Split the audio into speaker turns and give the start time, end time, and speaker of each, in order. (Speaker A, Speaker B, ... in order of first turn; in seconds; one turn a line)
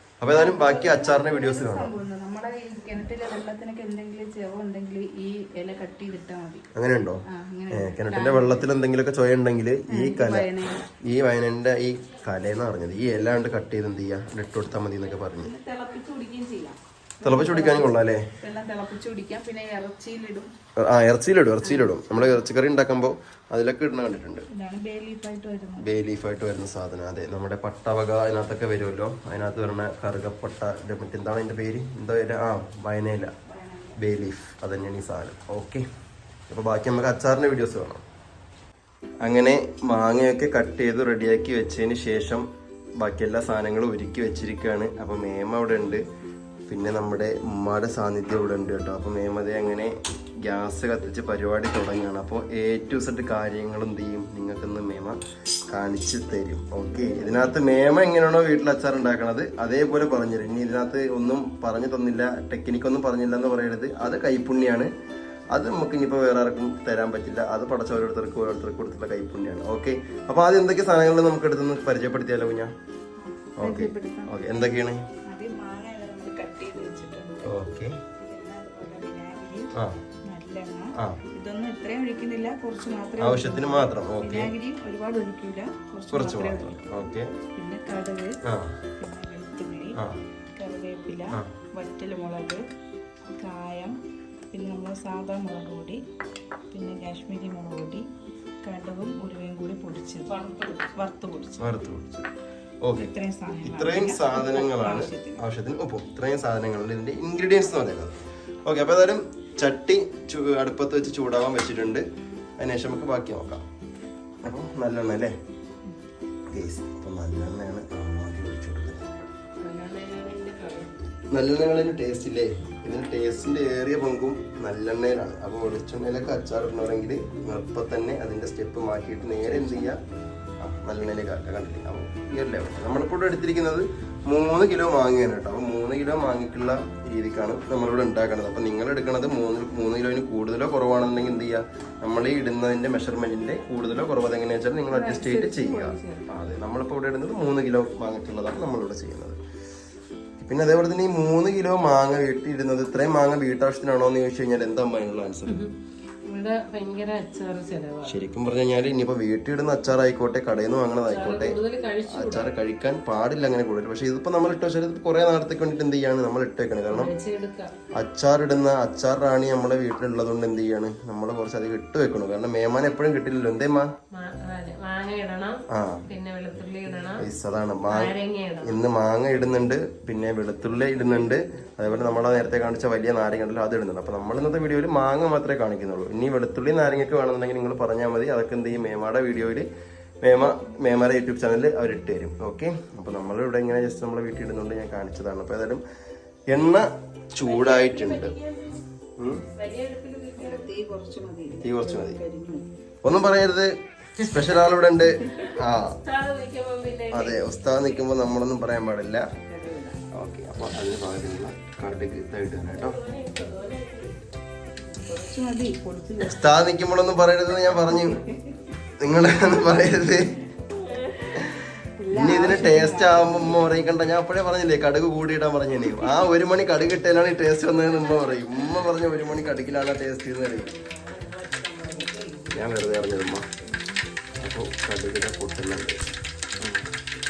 Speaker A: 0.2-1.9
Speaker B: 0.3-6.7
Speaker A: 6.7-15.5
Speaker B: 7.3-8.7
Speaker B: 9.9-10.8
Speaker B: 15.1-20.5
Speaker A: 17.2-18.3
Speaker A: 20.8-24.5
Speaker B: 21.6-22.4
Speaker B: 24.5-25.9
Speaker A: 25.8-33.3
Speaker B: 33.4-34.0
Speaker A: 34.0-35.9
Speaker A: 36.5-38.0
Speaker A: 39.2-42.5
Speaker A: 43.0-46.0
Speaker A: 46.7-55.2
Speaker A: 55.7-64.9
Speaker B: 56.9-57.6
Speaker A: 65.5-72.7
Speaker B: 73.2-74.3
Speaker A: 73.6-75.0
Speaker B: 75.2-77.5
Speaker A: 77.4-78.0
Speaker B: 78.2-79.7
Speaker B: 80.2-86.9
Speaker A: 83.2-84.5
Speaker A: 86.1-87.3
Speaker B: 87.5-88.4
Speaker A: 88.4-88.8
Speaker B: 89.0-90.0
Speaker A: 90.0-90.2
Speaker B: 90.5-92.7
Speaker B: 93.4-94.0
Speaker B: 94.5-96.0
Speaker B: 96.7-98.1
Speaker B: 98.6-100.4
Speaker C: 100.3-100.9
Speaker B: 100.9-101.7
Speaker A: 101.6-102.3
Speaker A: 102.8-103.1
Speaker B: 102.9-105.4
Speaker A: 103.6-112.0
Speaker A: 112.6-113.6
Speaker A: 114.4-115.3
Speaker A: 116.5-119.2
Speaker C: 119.6-121.0
Speaker A: 121.3-130.0
Speaker B: 129.5-130.0
Speaker A: 130.6-149.4
Speaker B: 144.9-146.3
Speaker A: 150.4-155.7
Speaker C: 155.5-155.7
Speaker C: 156.2-158.2
Speaker A: 158.1-161.6
Speaker C: 161.1-162.5
Speaker A: 162.1-167.1
Speaker C: 166.9-167.8
Speaker A: 167.9-173.9
Speaker C: 174.1-177.2
Speaker A: 175.7-176.0
Speaker A: 177.2-189.7
Speaker C: 177.9-178.8
Speaker A: 190.2-195.8
Speaker A: 196.5-198.3
Speaker C: 197.4-198.8
Speaker A: 199.2-199.4
Speaker C: 199.5-200.7
Speaker B: 200.4-202.7
Speaker A: 201.6-202.2
Speaker A: 203.0-206.0
Speaker C: 204.2-208.1
Speaker A: 207.1-209.3
Speaker B: 209.5-210.0
Speaker A: 210.1-213.0
Speaker C: 212.7-214.2
Speaker B: 214.9-216.6
Speaker A: 216.2-218.2
Speaker B: 217.9-218.6
Speaker A: 219.0-220.3
Speaker C: 220.8-221.5
Speaker B: 222.0-223.8
Speaker A: 222.1-230.7
Speaker C: 227.7-228.9
Speaker C: 230.4-232.9
Speaker B: 231.9-232.1
Speaker A: 232.5-233.4
Speaker A: 234.4-236.0
Speaker A: 236.6-236.8